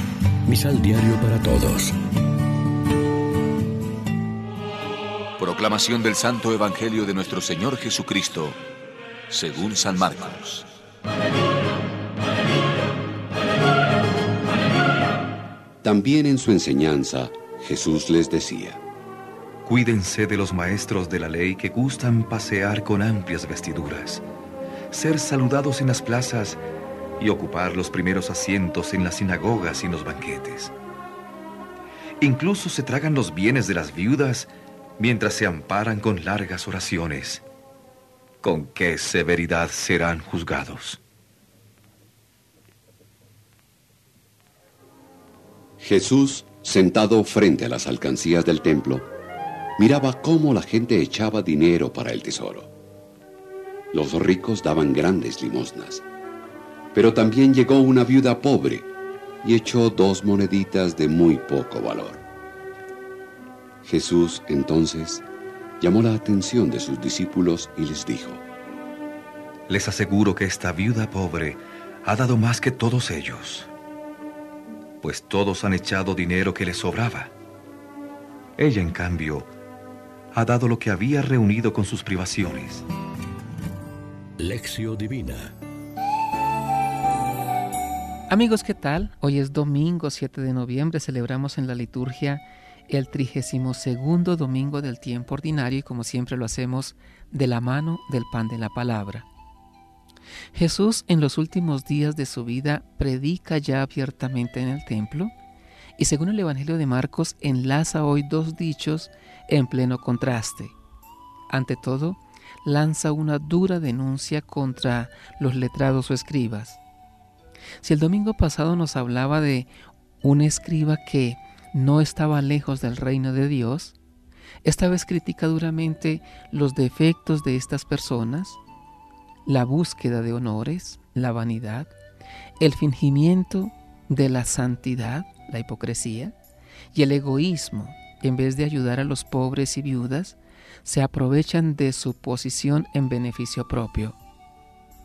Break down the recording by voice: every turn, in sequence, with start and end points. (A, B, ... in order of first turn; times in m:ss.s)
0:00.5-0:02.0 A
0:05.4-0:08.5 B
0:09.3-0:10.6 B
0:15.8-0:18.8 C
0:19.6-0:24.2 D
0:24.9-0:26.6 D
0:27.2-0:30.7 D
0:32.2-0:37.4 D
0:38.4-0:41.0 D
0:45.8-0:49.1 C
0:49.8-0:52.7 C
0:53.9-0:56.0 C
0:56.9-0:58.9 C
0:59.4-1:02.2 C
1:03.8-1:05.2 C
1:05.8-1:08.4 C
1:09.7-1:13.7 D
1:15.0-1:17.3 D
1:18.6-1:19.5 D
1:20.3-1:22.9 D
1:24.4-1:25.6 A
1:28.3-1:39.3 E
1:40.5-1:45.3 E
1:46.0-1:50.8 E
1:51.5-1:56.8 E
1:57.8-2:04.0 E
2:04.6-2:08.6 E
2:09.5-2:11.9 E
2:12.6-2:16.4 E
2:16.9-2:24.2 E